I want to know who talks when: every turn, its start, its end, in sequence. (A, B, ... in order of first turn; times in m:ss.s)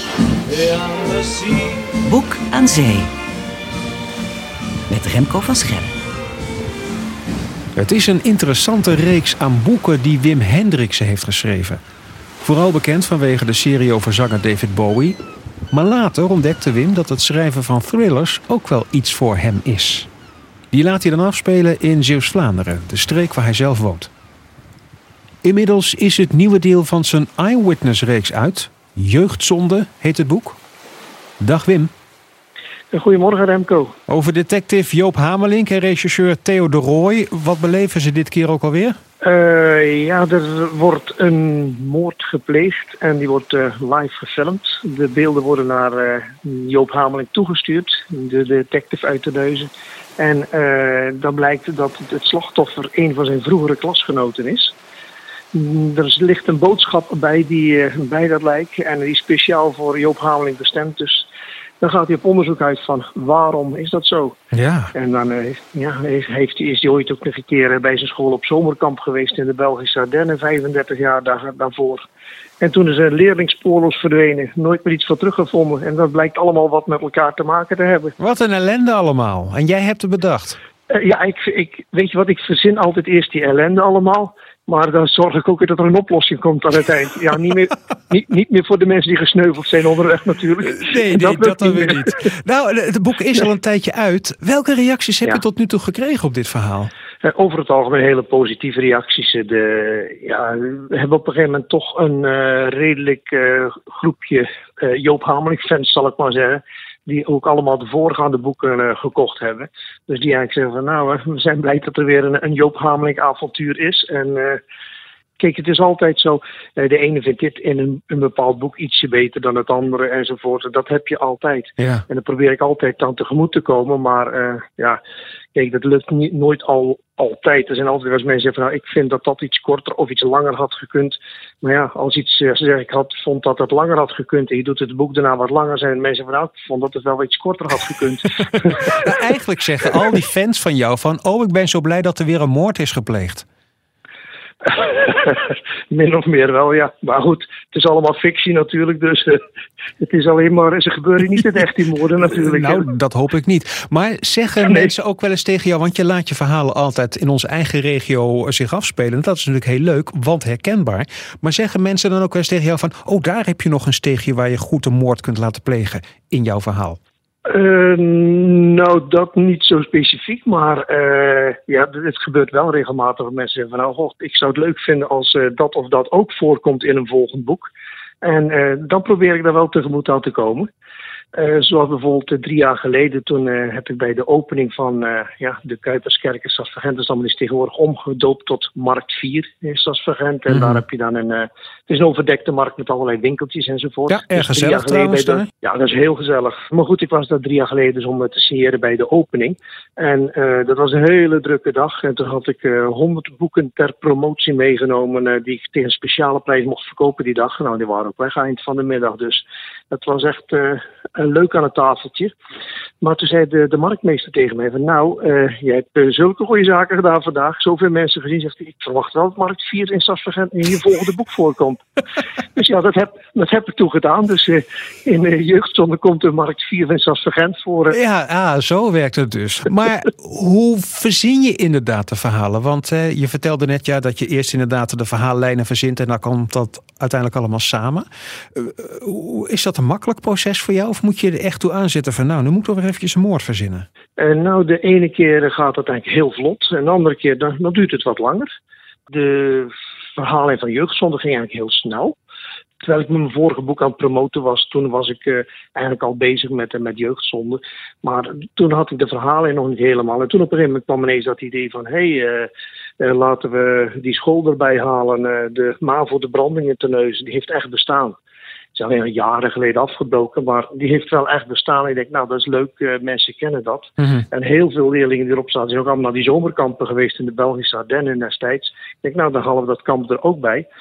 0:00.6-0:03.1 A
0:04.9-0:05.9 A
0:07.8-0:11.8 B
0:12.4-0:15.2 B
0:15.7-0:20.1 B
0:20.7-0:24.1 B
0:25.4-0:30.6 B
0:31.4-0:31.9 B
0:32.9-0:34.0 C
0:34.1-0:39.0 B
0:39.2-0:54.8 C
0:55.5-1:01.3 C
1:01.8-1:04.4 C
1:04.5-1:04.9 B
1:04.9-1:12.0 C
1:12.6-1:18.2 C
1:18.2-1:20.6 B
1:20.9-1:32.2 C
1:30.6-1:36.9 B
1:37.2-1:54.6 C
1:55.4-2:05.0 C
2:01.8-2:02.0 B
2:05.5-2:18.9 C
2:18.9-2:23.5 B
2:24.6-2:29.4 C
2:30.0-2:32.9 C
2:32.2-2:47.0 B
2:34.7-2:34.9 C
2:47.5-2:57.7 C
2:58.2-3:00.7 C
3:01.3-3:32.3 C
3:10.5-3:10.8 B
3:14.1-3:15.5 B
3:33.0-3:41.8 C
3:42.6-3:48.0 C
3:47.9-4:03.9 B
4:04.2-4:08.5 C
4:09.1-4:12.2 C
4:12.8-4:28.2 C
4:28.8-4:40.7 C